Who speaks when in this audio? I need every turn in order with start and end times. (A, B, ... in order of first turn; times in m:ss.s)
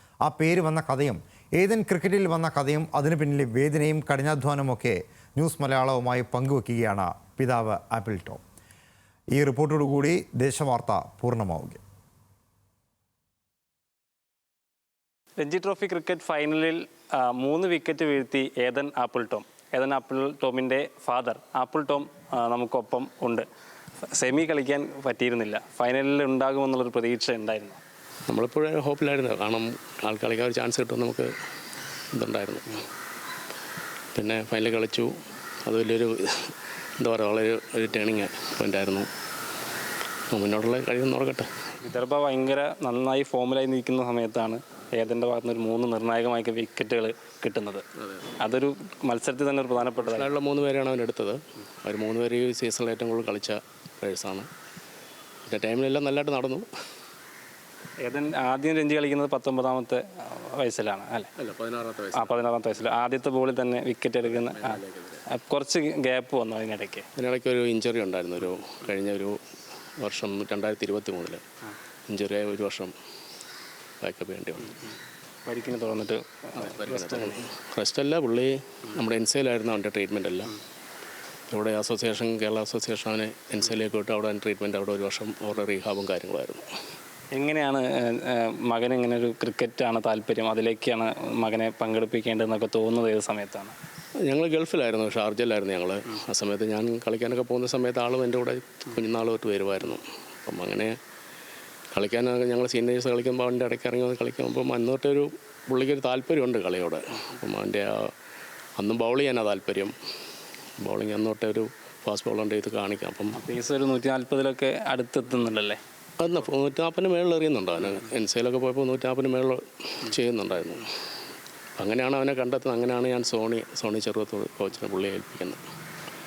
0:00.2-0:08.4 A
0:09.3-0:11.8 A
0:15.4-0:23.4 B
0:24.1-0:27.8 B
0:28.3-0:31.3 C
0:32.1-0:32.8 C
0:34.1-0:35.1 C
0:35.6-0:39.1 C
0:40.3-0:41.5 C
0:41.8-0:47.8 B
0:48.4-0:50.3 B
0:50.0-0:54.5 C
0:55.5-0:56.7 C
0:58.0-1:01.3 B
1:01.4-1:02.4 C
1:02.1-1:07.0 B
1:04.2-1:05.2 C
1:07.2-1:09.4 C
1:10.0-1:11.4 C
1:12.1-1:12.9 C
1:14.0-1:14.8 C
1:15.4-1:17.4 B
1:16.6-1:20.5 C
1:21.5-1:26.6 C
1:27.3-1:33.7 B
1:34.2-1:41.0 C
1:41.9-1:48.1 C
1:48.8-1:49.9 C
1:50.8-1:53.4 C
1:53.3-1:55.8 B
1:56.2-2:00.9 C
2:01.8-2:05.6 C